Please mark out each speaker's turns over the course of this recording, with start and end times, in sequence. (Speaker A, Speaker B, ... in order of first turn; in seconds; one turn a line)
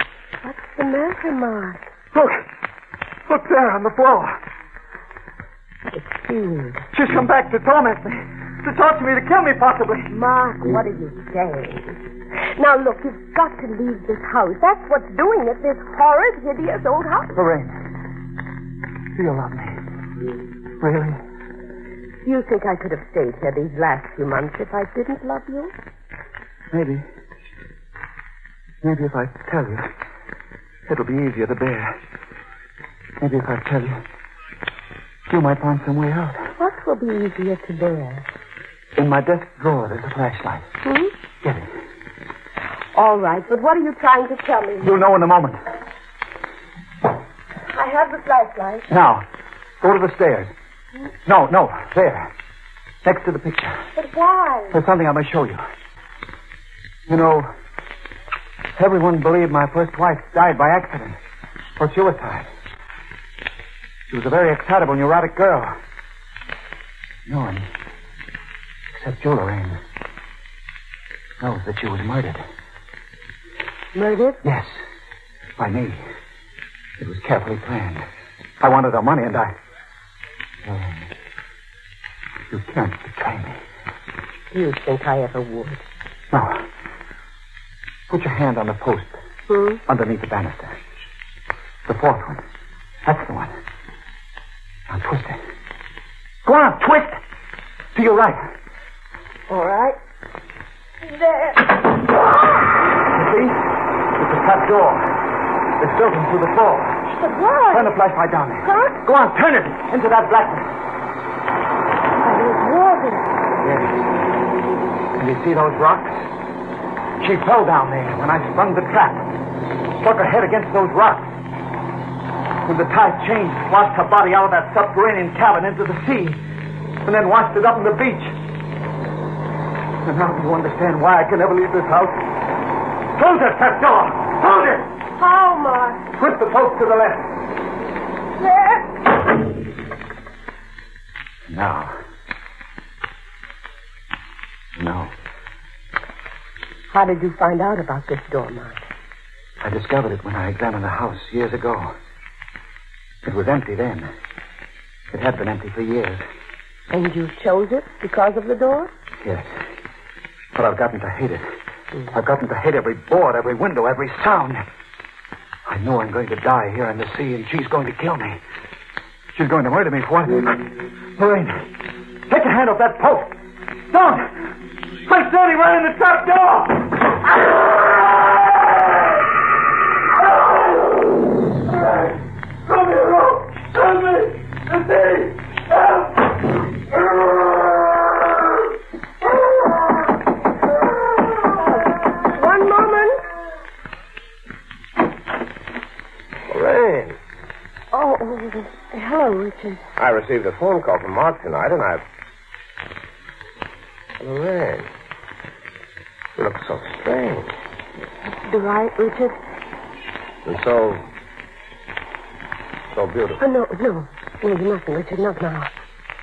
Speaker A: 0.4-1.9
Speaker B: 2.1-2.4
Speaker B: 3.3-4.4
Speaker A: 5.9-6.8
Speaker B: 6.9-10.1
Speaker A: 10.1-12.0
Speaker A: 12.6-17.3
Speaker B: 17.3-17.8
Speaker B: 19.1-19.8
Speaker B: 20.8-21.2
Speaker A: 22.2-25.7
Speaker B: 26.7-27.0
Speaker B: 28.8-29.9
Speaker B: 30.9-32.0
Speaker B: 33.2-34.0
Speaker B: 35.3-36.5
Speaker A: 36.6-38.2
Speaker B: 39.0-40.6
Speaker A: 40.8-41.1
Speaker B: 41.4-41.7
Speaker A: 42.9-45.0
Speaker B: 44.8-45.6
Speaker A: 47.7-48.9
Speaker B: 48.9-49.2
Speaker B: 49.8-50.5
Speaker B: 51.2-52.3
Speaker B: 53.0-53.8
Speaker A: 54.0-54.8
Speaker B: 54.7-55.6
Speaker B: 57.1-57.5
Speaker B: 58.8-61.2
Speaker B: 61.8-62.5
Speaker B: 64.1-65.8
Speaker B: 67.2-67.7
Speaker B: 68.9-69.8
Speaker B: 71.4-72.4
Speaker A: 73.9-74.4
Speaker B: 74.4-74.8
Speaker B: 75.6-76.0
Speaker B: 77.0-78.0
Speaker B: 78.6-79.6
Speaker B: 80.6-81.1
Speaker B: 82.5-83.6
Speaker A: 84.5-85.8
Speaker B: 86.3-86.6
Speaker B: 88.1-89.2
Speaker A: 89.5-89.8
Speaker B: 89.8-90.8
Speaker B: 91.8-92.4
Speaker B: 93.0-93.5
Speaker B: 94.9-95.4
Speaker B: 96.4-97.2
Speaker B: 97.9-98.5
Speaker A: 99.5-100.0
Speaker A: 101.0-101.7
Speaker B: 103.1-105.2
Speaker B: 105.8-107.2
Speaker A: 107.2-108.0
Speaker B: 107.7-110.7
Speaker A: 108.6-109.0
Speaker A: 112.2-113.3
Speaker B: 113.6-114.0
Speaker B: 115.2-116.3
Speaker B: 117.2-119.3
Speaker B: 120.0-121.3
Speaker B: 122.6-126.4
Speaker B: 127.0-128.3
Speaker B: 130.0-132.2
Speaker B: 133.1-134.9
Speaker A: 135.2-136.0
Speaker B: 136.2-137.3
Speaker A: 138.4-138.9
Speaker B: 141.5-142.0
Speaker B: 144.8-145.1
Speaker A: 146.9-148.8
Speaker B: 149.6-151.9
Speaker B: 153.2-154.1
Speaker B: 155.1-156.2
Speaker A: 156.9-158.9
Speaker B: 159.2-159.5
Speaker B: 160.5-161.5
Speaker B: 162.1-164.6
Speaker B: 165.6-168.4
Speaker B: 169.3-171.7
Speaker B: 172.3-173.3
Speaker B: 173.9-174.5
Speaker B: 175.1-178.3
Speaker B: 182.7-185.3
Speaker A: 191.6-193.2
Speaker C: 196.5-197.2
Speaker A: 197.9-199.8
Speaker C: 200.0-202.0
Speaker C: 204.2-204.9
Speaker C: 206.4-207.6
Speaker A: 208.3-209.4
Speaker C: 210.4-211.0
Speaker C: 212.9-213.4
Speaker A: 213.4-215.7